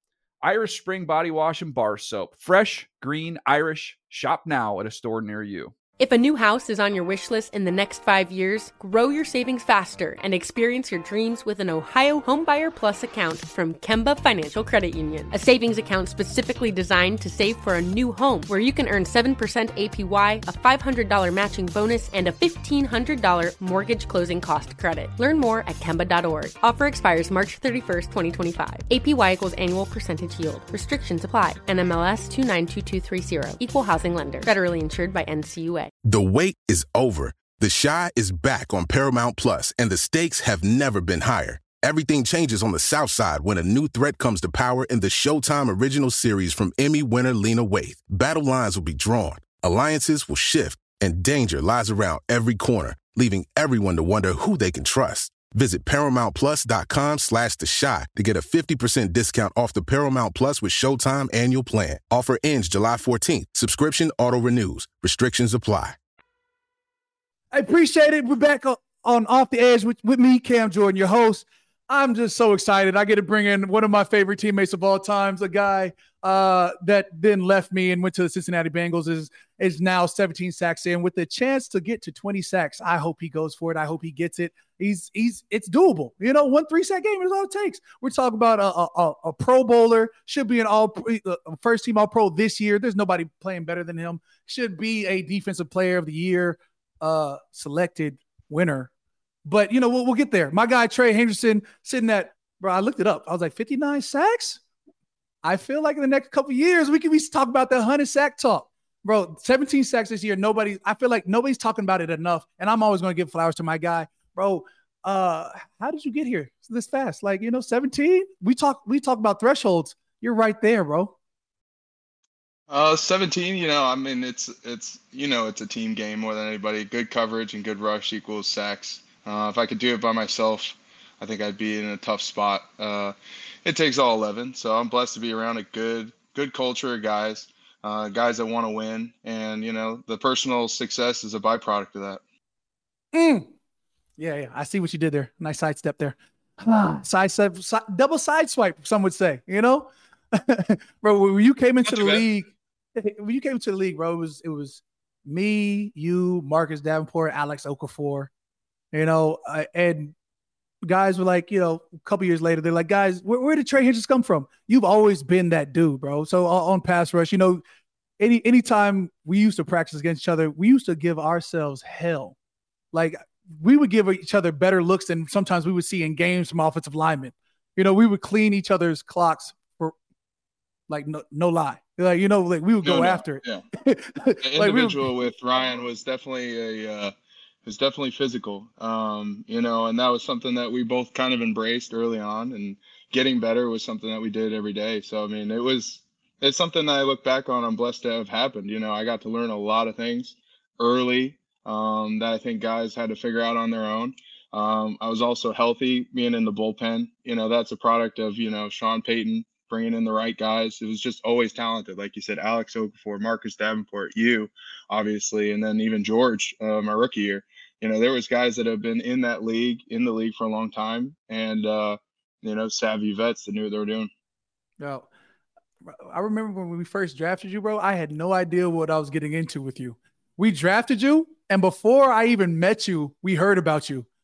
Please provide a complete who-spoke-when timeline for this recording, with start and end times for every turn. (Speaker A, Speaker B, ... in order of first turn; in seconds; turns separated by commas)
Speaker A: 0.4-5.7, Speaker B: 6.0-35.9, Speaker C: 36.0-66.0, Speaker D: 67.5-98.9, Speaker D: 99.4-104.6, Speaker D: 105.4-121.1, Speaker E: 122.7-142.2, Speaker D: 143.1-143.5, Speaker D: 144.2-158.3, Speaker E: 151.8-152.2, Speaker D: 158.9-160.1, Speaker D: 160.8-167.6, Speaker D: 168.2-172.3, Speaker D: 172.9-179.9, Speaker D: 180.9-185.1, Speaker E: 182.8-183.6, Speaker E: 184.4-187.1, Speaker E: 187.6-224.1, Speaker D: 224.8-225.1, Speaker D: 225.9-234.1